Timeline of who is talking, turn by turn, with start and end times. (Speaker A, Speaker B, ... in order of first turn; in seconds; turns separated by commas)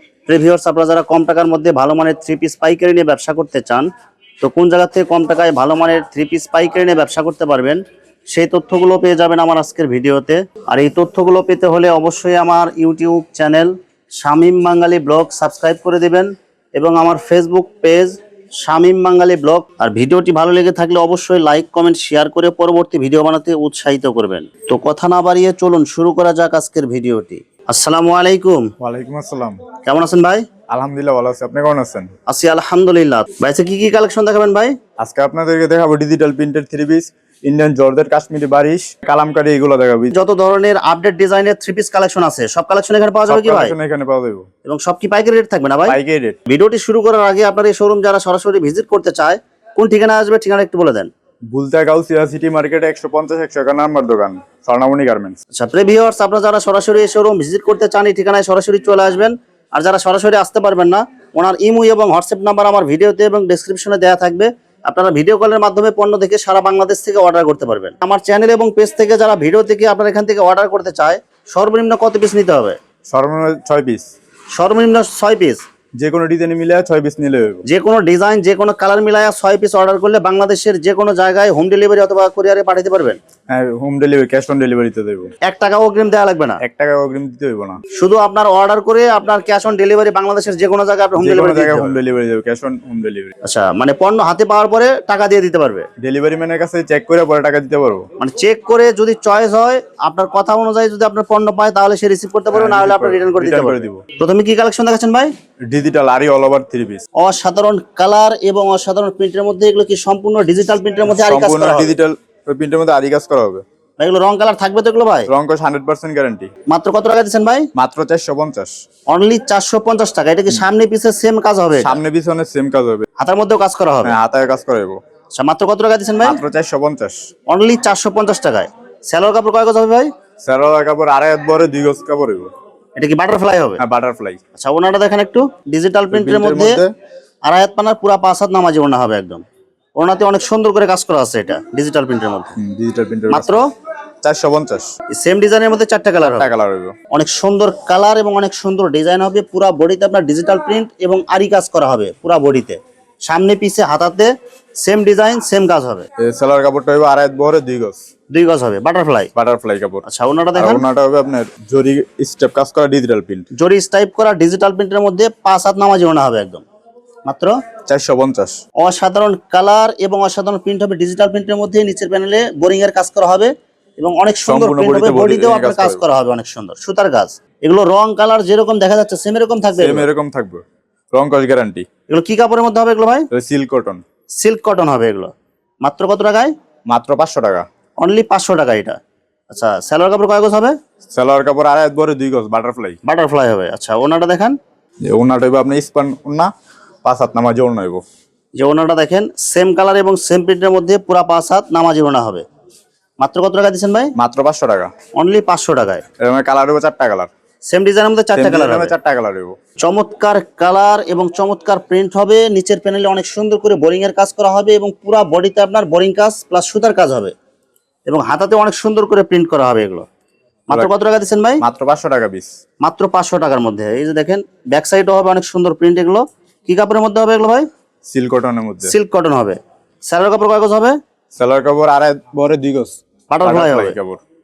Speaker A: 0.3-3.9, Speaker A: 4.4-7.8, Speaker A: 8.3-28.7, Speaker B: 28.8-29.6, Speaker A: 29.8-30.4, Speaker B: 30.7-32.1, Speaker A: 32.3-34.7, Speaker B: 35.0-40.1, Speaker A: 40.1-43.7, Speaker B: 43.3-44.5, Speaker A: 44.6-51.1, Speaker B: 45.9-46.4, Speaker B: 51.5-55.4, Speaker A: 55.5-72.8, Speaker B: 73.1-74.1, Speaker A: 74.5-75.6, Speaker B: 76.0-77.6, Speaker A: 77.7-83.2, Speaker B: 83.5-85.3, Speaker A: 85.4-86.6, Speaker B: 86.6-87.8, Speaker A: 87.9-92.0, Speaker B: 91.2-93.3, Speaker A: 93.4-95.9, Speaker B: 96.0-98.0, Speaker A: 98.2-105.3, Speaker B: 102.5-104.0, Speaker B: 105.7-107.0, Speaker A: 107.2-112.0, Speaker B: 111.0-113.6, Speaker A: 114.0-115.3, Speaker B: 115.3-116.5, Speaker A: 116.7-117.7, Speaker B: 117.7-118.7, Speaker A: 119.1-122.0, Speaker B: 121.8-123.1, Speaker A: 123.2-124.2, Speaker B: 124.0-125.0, Speaker A: 125.3-126.4, Speaker B: 126.2-127.2, Speaker A: 127.5-130.1, Speaker B: 130.4-132.5, Speaker A: 133.0-133.8, Speaker B: 133.8-134.4, Speaker A: 134.6-136.8, Speaker B: 136.1-136.9, Speaker A: 137.4-139.4, Speaker A: 140.0-142.6, Speaker B: 142.6-143.6, Speaker A: 143.3-143.7, Speaker B: 144.2-144.9, Speaker A: 145.1-146.5, Speaker B: 146.2-146.9, Speaker A: 147.1-154.3, Speaker A: 154.8-156.0, Speaker B: 156.2-158.0, Speaker A: 158.3-159.3, Speaker B: 159.3-160.0, Speaker A: 160.0-160.8, Speaker B: 160.5-163.5, Speaker A: 163.6-166.6, Speaker A: 167.3-167.5, Speaker B: 167.9-168.6, Speaker A: 168.8-180.1, Speaker B: 174.4-176.0, Speaker B: 179.8-181.8, Speaker A: 182.1-183.3, Speaker B: 183.3-184.0, Speaker A: 184.4-185.3, Speaker A: 185.8-186.5, Speaker B: 186.9-187.7, Speaker A: 188.0-189.0, Speaker A: 189.5-190.7, Speaker B: 191.1-193.0, Speaker A: 193.0-194.6, Speaker B: 195.0-196.5, Speaker B: 197.0-198.0, Speaker A: 198.6-202.4, Speaker A: 203.2-204.1, Speaker B: 204.2-204.9, Speaker A: 205.2-206.0, Speaker B: 206.2-207.3, Speaker A: 207.7-208.9, Speaker B: 208.3-209.6, Speaker A: 209.8-217.3, Speaker A: 218.1-220.1, Speaker A: 220.7-221.6, Speaker B: 221.6-222.5, Speaker A: 222.8-227.7, Speaker B: 228.1-228.9, Speaker A: 228.8-231.0, Speaker B: 231.4-234.2, Speaker A: 233.3-234.0